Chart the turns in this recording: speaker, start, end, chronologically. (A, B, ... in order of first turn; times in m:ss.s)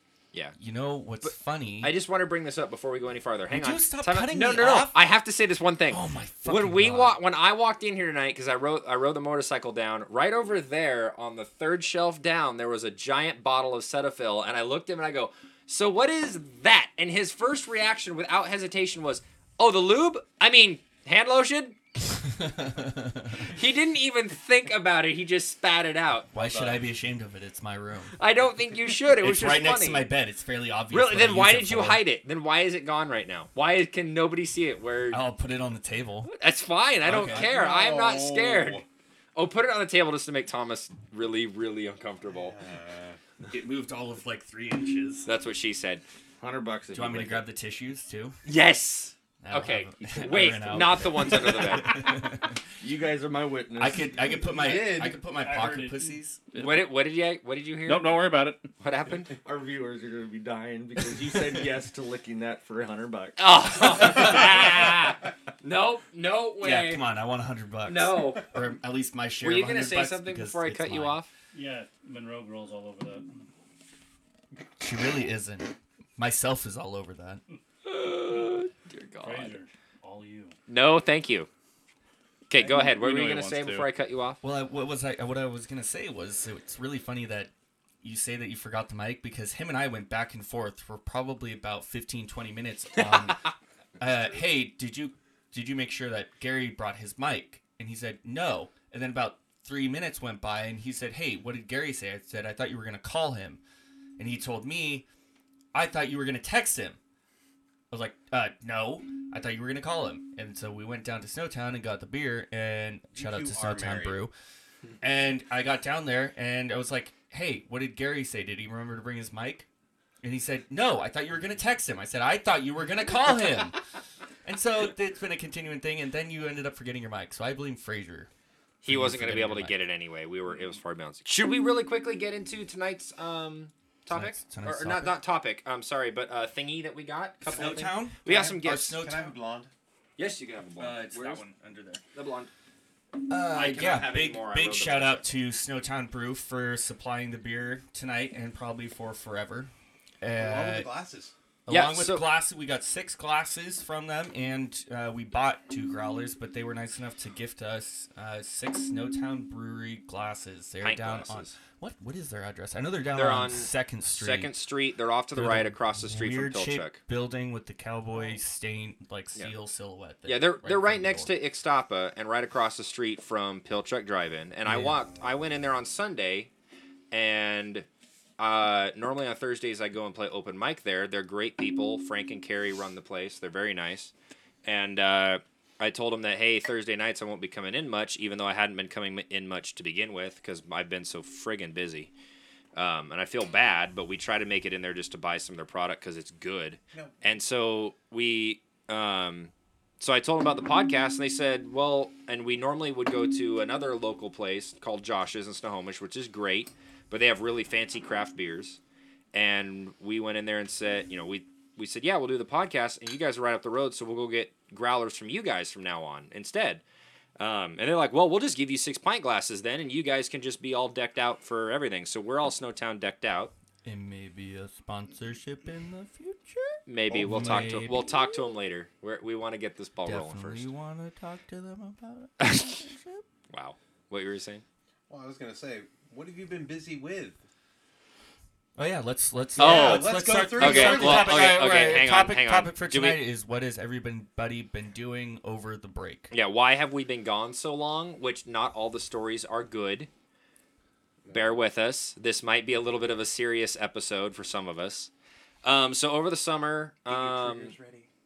0:00.6-0:02.0 A
0:01.2-0:21.8 B
0:03.5-0:05.0 A
0:05.9-0:07.2 A
0:22.4-0:23.5 A
0:23.5-0:26.7 B
0:26.3-0:28.2 A
0:28.2-0:30.1 B
0:29.2-0:32.0 A
0:30.9-0:35.2 B
0:35.1-0:36.3 A
0:36.2-0:38.8 B
0:37.0-0:37.5 A
0:37.1-0:38.8 C
0:39.4-0:42.6 B
0:42.3-0:43.2 C
0:43.5-0:45.3 A
0:45.3-0:46.0 B
0:46.4-0:47.4 D
0:46.9-0:48.4 A
0:48.4-0:52.1 B
0:49.4-0:52.6 A
0:50.0-0:51.1 D
0:52.8-0:54.1 D
0:53.8-0:56.4 A
0:54.4-0:55.2 C
0:55.3-0:56.1 E
0:56.5-0:56.9 F
0:56.6-0:58.2 B
0:57.8-0:58.6 F
0:58.8-0:59.3 B
0:59.4-1:03.5 D
1:03.4-1:07.1 B
1:06.6-1:11.2 A
1:07.9-1:08.5 B
1:09.4-1:11.3 B
1:11.5-1:13.5 E
1:14.8-1:17.4 A
1:17.8-1:19.6 B
1:19.2-1:20.6 E
1:20.7-1:21.5 B
1:22.5-1:24.4 B
1:22.7-1:23.9 F
1:24.4-1:27.5 A
1:28.0-1:43.6 A
1:44.2-1:45.1 A
1:45.7-1:47.0 A
1:47.9-1:54.3 A
1:53.1-1:54.2 C
1:55.0-1:59.7 A
2:00.2-2:03.8 A
2:04.4-2:08.3 A
2:08.8-2:19.0 B
2:08.9-2:09.8 A
2:14.1-2:15.2 A
2:17.5-2:19.7 C
2:17.5-2:19.3 A
2:20.2-2:21.4 B
2:20.8-2:22.0 A
2:22.1-2:22.5 B
2:23.3-2:30.9 A
2:23.5-2:25.2 B
2:30.4-2:31.3 C
2:31.7-2:44.5 A
2:31.7-2:32.3 B
2:40.8-2:41.6 B
2:43.1-2:47.0 B
2:45.4-2:51.3 A
2:50.3-2:56.5 B
2:54.6-2:55.0 A
2:57.1-2:57.9 B
2:58.4-3:04.1 B
3:04.6-3:12.1 B
3:12.8-3:28.8 B
3:29.3-3:36.8 B
3:37.4-3:43.5 B
3:43.8-3:48.4 A
3:46.9-3:50.7 B
3:47.1-3:47.9 C
3:50.0-3:53.2 A
3:52.4-3:52.8 B
3:53.5-3:54.6 B
3:55.1-3:57.4 C
3:58.8-4:06.3 A
3:59.6-4:01.6 C
3:59.6-4:03.2 B
4:06.3-4:10.1 B
4:11.3-4:11.6 C
4:11.3-4:15.1 B
4:15.6-4:17.8 B
4:17.1-4:18.1 C